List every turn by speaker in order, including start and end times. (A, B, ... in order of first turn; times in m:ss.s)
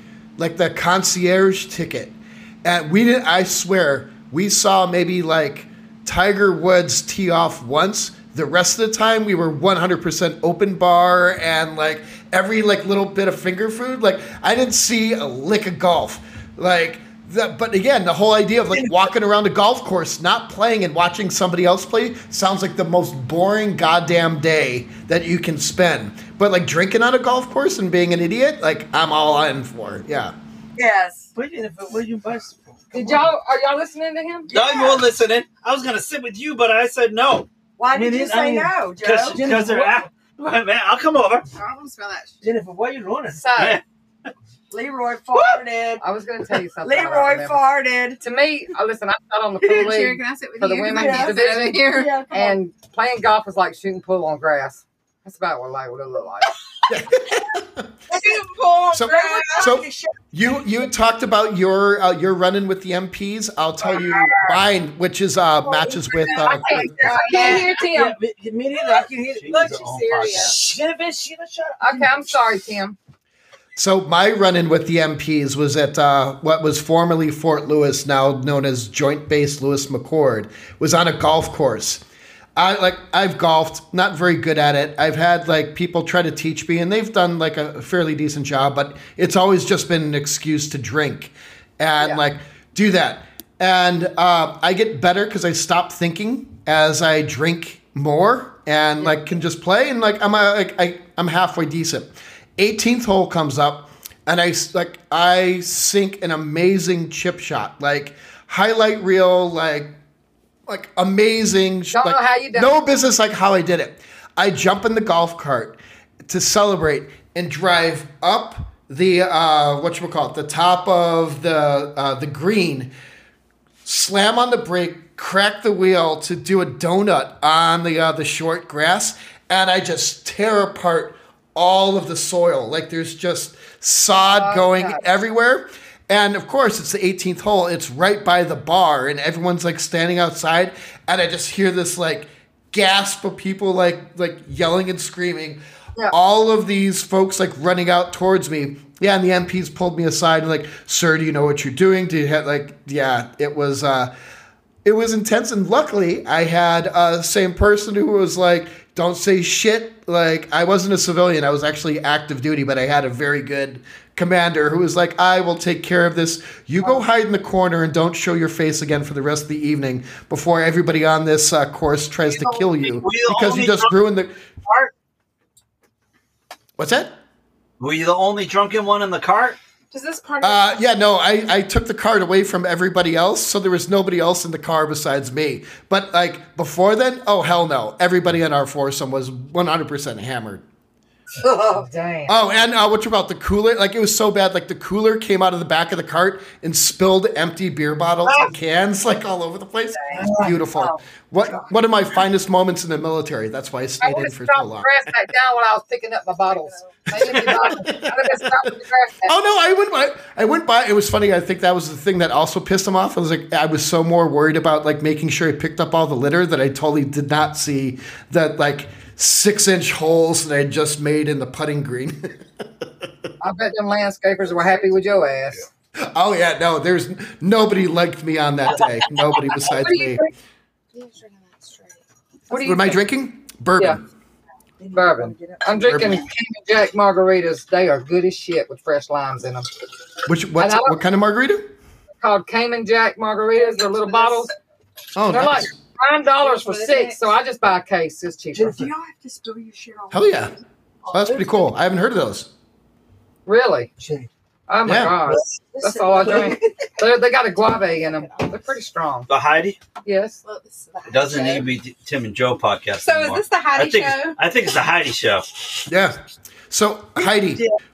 0:00.4-0:30.4 A
0:30.8-0:31.3 B
0:31.4-0:33.3 C
0:31.6-0:32.4 D
0:32.9-0:34.5 E
0:34.5-0:35.1 B
0:34.5-0:37.5 D
0:37.8-0:39.4 B
0:37.9-0:38.7 C
0:39.0-0:41.5 D
0:39.3-0:40.1 C
0:41.5-0:42.4 F
0:42.4-0:43.5 C
0:43.3-0:43.8 E
0:43.6-0:43.8 D
0:44.7-0:46.0 B
0:46.0-0:47.6 E
0:46.8-0:48.2 B
0:48.2-0:56.6 E
0:49.6-0:52.3 F
0:50.8-0:52.6 B
0:56.9-0:57.9 A
0:58.1-0:59.7 F
0:58.1-1:00.3 B
0:58.9-1:07.0 A
1:05.6-1:07.7 B
1:06.4-1:08.2 E
1:07.0-1:07.8 F
1:07.2-1:12.2 C
1:09.4-1:10.6 D
1:09.5-1:10.6 F
1:11.8-1:13.0 E
1:13.8-1:22.0 A
1:22.6-1:49.9 A
1:50.7-2:02.9 A
1:51.9-1:52.7 E
2:03.8-2:34.1 A
2:14.2-2:15.0 E
2:34.8-2:54.3 A
2:52.3-2:53.9 D
2:54.6-2:54.9 D
2:56.8-2:57.1 A
2:57.8-2:59.6 D
2:59.9-3:00.8 F
3:00.4-3:10.6 A
3:11.4-3:12.4 E
3:12.3-3:24.9 A
3:20.1-3:21.0 E
3:24.0-3:29.4 E
3:26.5-3:26.9 F
3:27.1-3:28.5 A
3:29.3-3:43.3 A
3:43.4-3:45.7 E
3:46.0-3:50.2 A
3:49.6-3:50.3 E
3:50.9-3:52.0 F
3:52.5-3:53.0 E
3:52.5-3:54.0 A
3:54.8-3:55.9 B
3:54.9-3:59.7 E
3:55.8-3:56.2 A
4:00.3-4:01.7 A
4:00.6-4:00.9 E
4:02.2-4:04.5 E
4:03.6-4:04.3 F
4:03.9-4:04.4 B
4:05.1-4:05.7 A
4:05.3-4:08.9 E
4:06.4-4:07.3 F
4:08.6-4:10.5 B
4:10.1-4:10.5 A
4:11.1-4:11.7 B
4:11.1-4:12.5 A
4:13.5-4:13.9 E
4:14.0-4:14.3 C
4:14.7-4:19.3 E
4:14.8-4:15.2 A
4:15.7-4:16.6 B
4:19.3-4:19.8 D
4:20.0-4:20.4 E
4:20.4-4:21.7 F
4:21.1-4:25.4 D
4:23.0-4:24.4 F
4:25.9-4:26.2 A
4:26.7-4:27.6 A